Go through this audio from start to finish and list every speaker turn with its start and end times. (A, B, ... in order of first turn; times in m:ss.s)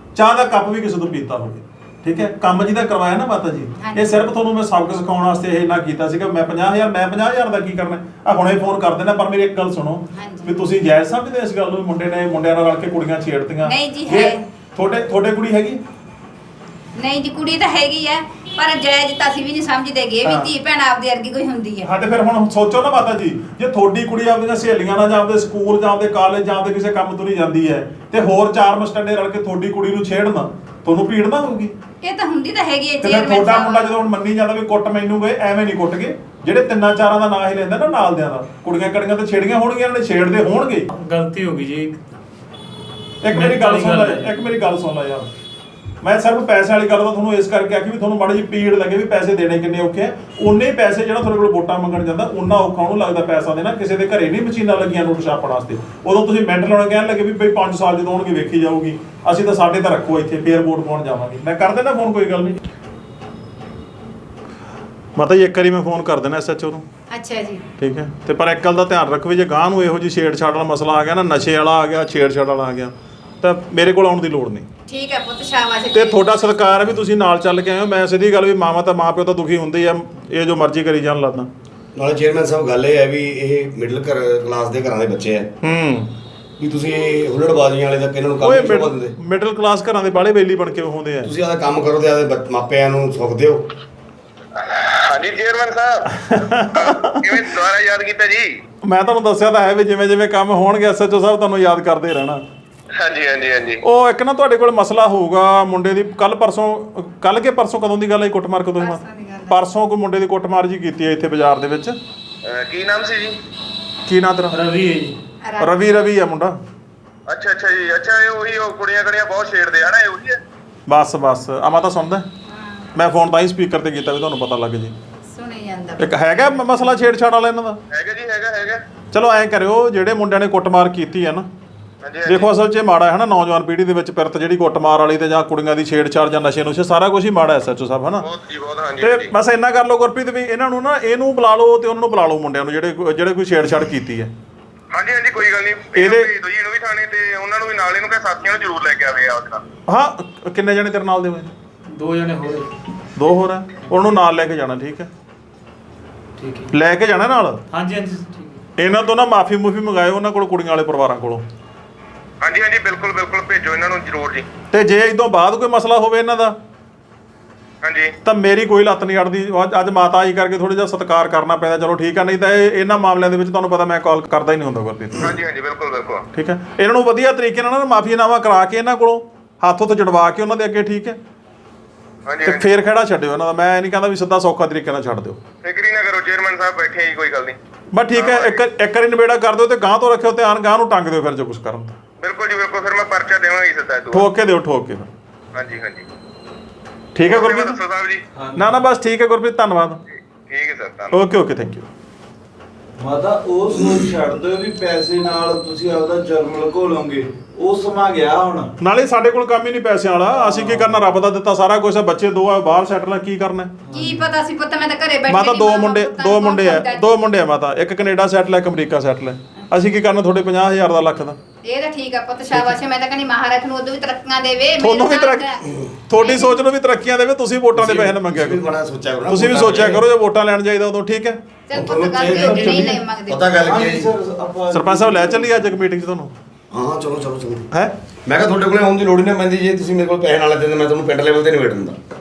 0:00.1-0:15.8 A
0:03.8-0:04.2 B
0:10.1-0:10.5 B
0:13.6-0:14.4 B
0:17.0-0:21.9 B
0:20.2-0:20.5 A
0:21.8-0:31.7 A
0:32.0-0:33.9 B
0:33.0-0:40.9 A
0:40.9-0:42.0 C
0:43.2-0:45.3 A
0:43.3-0:44.3 C
0:46.0-1:02.6 A
1:05.2-1:06.8 A
1:07.1-1:07.6 B
1:07.8-1:14.7 A
1:14.9-1:16.5 B
1:15.9-1:21.5 A
1:21.9-1:25.6 D
1:25.6-1:26.1 A
1:26.6-1:29.1 D
1:28.4-1:31.3 A
1:31.2-1:33.6 D
1:34.5-1:36.1 E
1:36.1-1:37.4 A
1:36.7-1:38.5 E
1:38.8-1:42.4 A
1:43.0-1:43.8 E
1:43.8-1:52.0 A
1:48.8-1:49.6 B
1:52.4-1:53.4 E
1:54.0-1:54.6 A
1:54.5-1:55.1 C
1:55.4-1:55.8 B
1:55.6-1:56.6 A
1:57.3-2:00.4 E
2:00.9-2:02.3 A
2:02.5-2:02.9 B
2:02.9-2:04.9 A
2:05.3-2:06.9 B
2:06.0-2:07.8 A
2:07.9-2:08.8 E
2:09.1-2:11.5 A
2:12.0-2:12.5 E
2:12.2-2:18.2 A
2:18.2-2:19.3 E
2:19.0-2:24.3 A
2:24.9-2:29.6 E
2:25.9-2:26.3 A
2:29.9-2:31.5 A
2:31.9-2:32.7 C
2:33.2-2:35.1 A
2:36.4-2:36.7 C
2:36.7-2:37.6 A
2:37.7-2:38.6 C
2:38.8-2:41.4 A
2:42.4-2:44.5 E
2:44.7-2:46.5 A
2:47.8-2:48.1 E
2:48.2-2:55.3 A
2:55.2-2:56.2 E
2:56.3-3:01.2 A
3:02.2-3:02.7 E
3:02.4-3:05.4 A
3:05.6-3:07.6 E
3:07.9-3:12.0 A
3:08.1-3:08.6 E
3:12.2-3:14.3 E
3:14.1-3:15.1 A
3:15.5-3:16.0 E
3:17.1-3:17.8 A
3:17.2-3:18.2 E
3:18.3-3:18.9 F
3:18.6-3:20.0 A
3:20.5-3:21.2 E
3:21.1-3:21.8 A
3:23.0-3:28.7 F
3:28.8-3:33.7 A
3:30.3-3:31.0 F
3:33.9-3:34.2 F
3:33.9-3:37.1 B
3:35.3-3:41.4 A
3:41.6-3:45.6 B
3:44.8-3:45.5 A
3:46.1-3:48.6 A
3:46.2-3:46.6 B
3:47.7-3:50.0 D
3:49.2-3:51.4 A
3:51.7-3:53.5 B
3:51.7-3:54.1 D
3:52.2-3:53.0 A
3:53.6-3:55.7 F
3:54.7-3:56.3 A
3:56.7-3:57.7 D
3:58.2-4:02.0 D